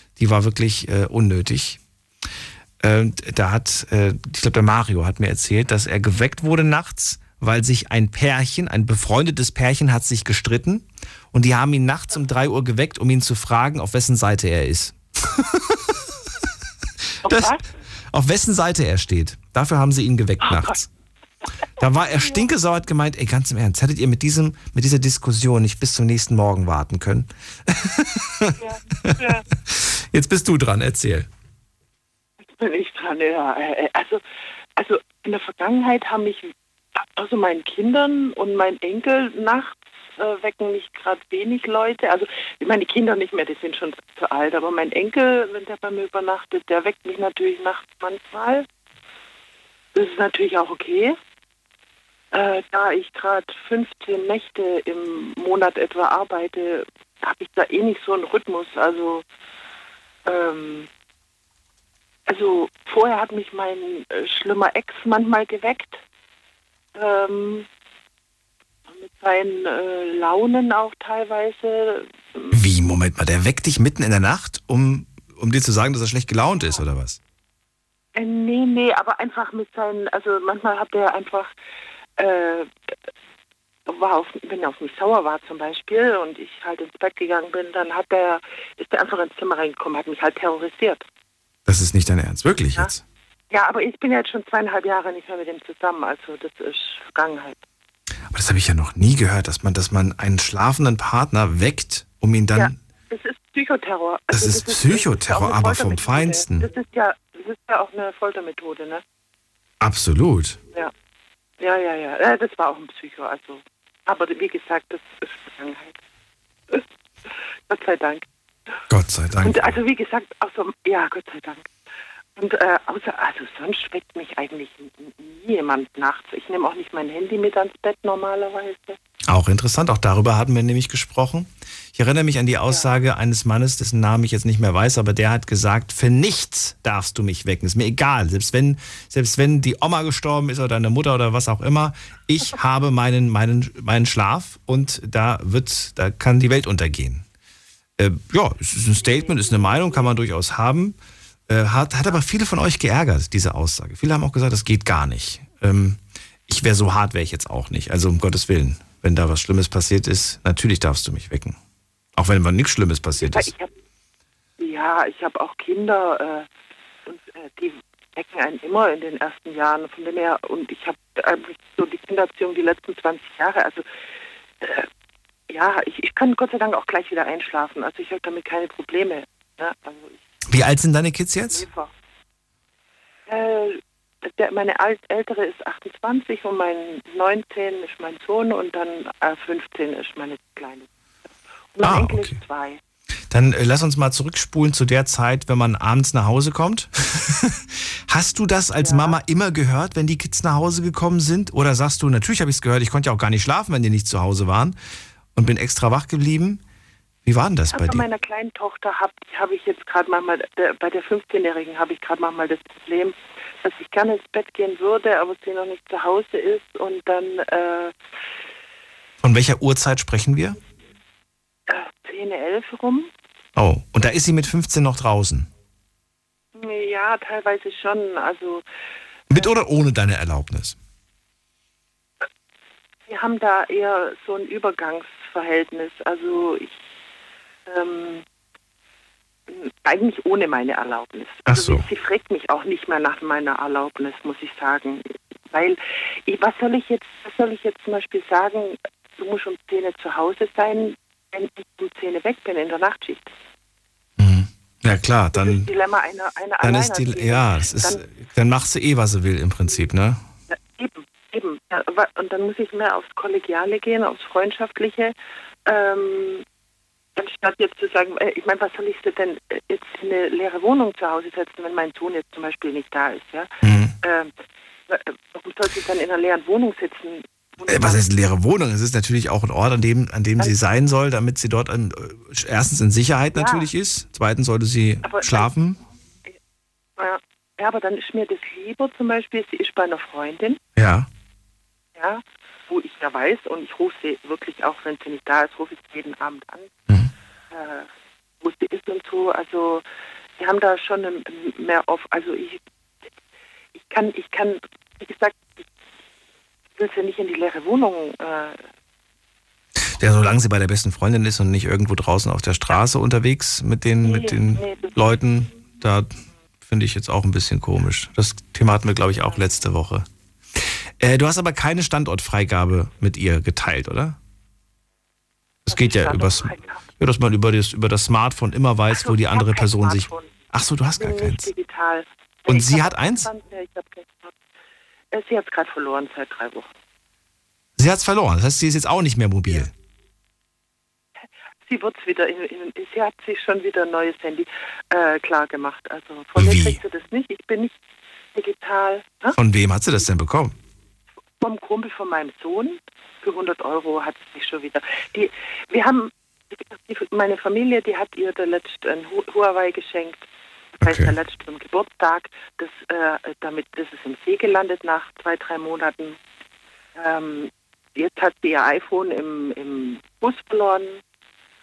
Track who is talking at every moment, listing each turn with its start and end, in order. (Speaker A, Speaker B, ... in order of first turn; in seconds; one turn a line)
Speaker A: 0.2-1.8
Speaker A: 2.8-15.9
Speaker A: 17.2-17.6
Speaker B: 17.2-17.6
Speaker A: 18.1-20.9
Speaker B: 20.4-20.7
Speaker A: 21.8-31.3
Speaker B: 22.2-22.5
Speaker B: 28.6-29.4
Speaker B: 32.5-34.2
Speaker B: 34.8-36.5
Speaker B: 37.2-48.6
Speaker B: 49.9-51.1
Speaker B: 52.3-59.2
Speaker B: 60.2-60.9
Speaker B: 62.3-66.0
Speaker B: 66.9-67.7
Speaker B: 68.9-72.5
Speaker A: 72.5-77.2
Speaker B: 78.2-81.5
Speaker B: 82.2-82.7
Speaker B: 83.9-91.0
Speaker A: 91.7-93.0
Speaker B: 93.5-97.6
Speaker A: 98.3-102.8
Speaker B: 102.5-109.0
Speaker A: 104.3-106.7
Speaker A: 109.8-110.6
Speaker B: 111.6-116.0
Speaker B: 117.7-118.2
Speaker A: 118.9-119.8
Speaker B: 119.4-121.7
Speaker B: 122.4-129.0
Speaker A: 129.3-147.2
Speaker A: 148.0-151.0
Speaker A: 151.5-161.6
Speaker A: 162.2-163.5
Speaker B: 163.2-163.7
Speaker B: 164.6-166.5
Speaker B: 167.1-173.8
Speaker B: 174.6-174.9
Speaker B: 175.5-180.2
Speaker A: 180.5-181.7
Speaker B: 181.5-181.9
Speaker B: 183.3-190.9
Speaker B: 191.7-192.8
Speaker A: 191.8-192.4
Speaker A: 193.3-204.8
Speaker B: 198.8-199.2
Speaker A: 205.3-206.6
Speaker A: 207.2-208.0
Speaker B: 207.7-217.9
Speaker A: 219.2-220.6
Speaker B: 221.7-223.1
Speaker A: 223.6-225.5
Speaker B: 226.6-228.6
Speaker A: 229.3-230.8
Speaker B: 233.1-236.7
Speaker B: 237.7-238.2
Speaker B: 239.5-253.3
Speaker A: 241.4-241.8
Speaker A: 254.2-255.7
Speaker B: 255.3-258.0
Speaker A: 256.6-260.2
Speaker B: 260.5-265.1
Speaker B: 265.6-266.4
Speaker B: 267.1-273.5
Speaker A: 273.6-273.9
Speaker B: 274.0-274.3
Speaker B: 274.9-278.0
Speaker A: 277.6-285.8
Speaker B: 283.3-283.7
Speaker B: 285.0-285.5
Speaker B: 287.0-290.6
Speaker A: 290.8-291.1
Speaker B: 291.9-296.7
Speaker B: 297.5-297.9
Speaker B: 298.4-299.8
Speaker B: 300.4-302.6
Speaker B: 303.9-305.6
Speaker B: 306.8-308.6
Speaker A: 309.9-316.1
Speaker B: 314.0-314.9
Speaker A: 316.6-324.2
Speaker B: 319.2-319.6
Speaker A: 325.7-331.5
Speaker B: 325.7-326.8
Speaker B: 328.9-330.3
Speaker B: 331.0-334.3
Speaker A: 332.5-333.3
Speaker B: 335.1-336.7
Speaker A: 337.8-339.7
Speaker B: 341.6-347.7
Speaker A: 346.3-346.8
Speaker B: 348.3-349.4
Speaker A: 349.3-350.5
Speaker B: 351.4-360.2
Speaker B: 360.8-366.2
Speaker A: 360.8-361.1
Speaker B: 367.0-371.0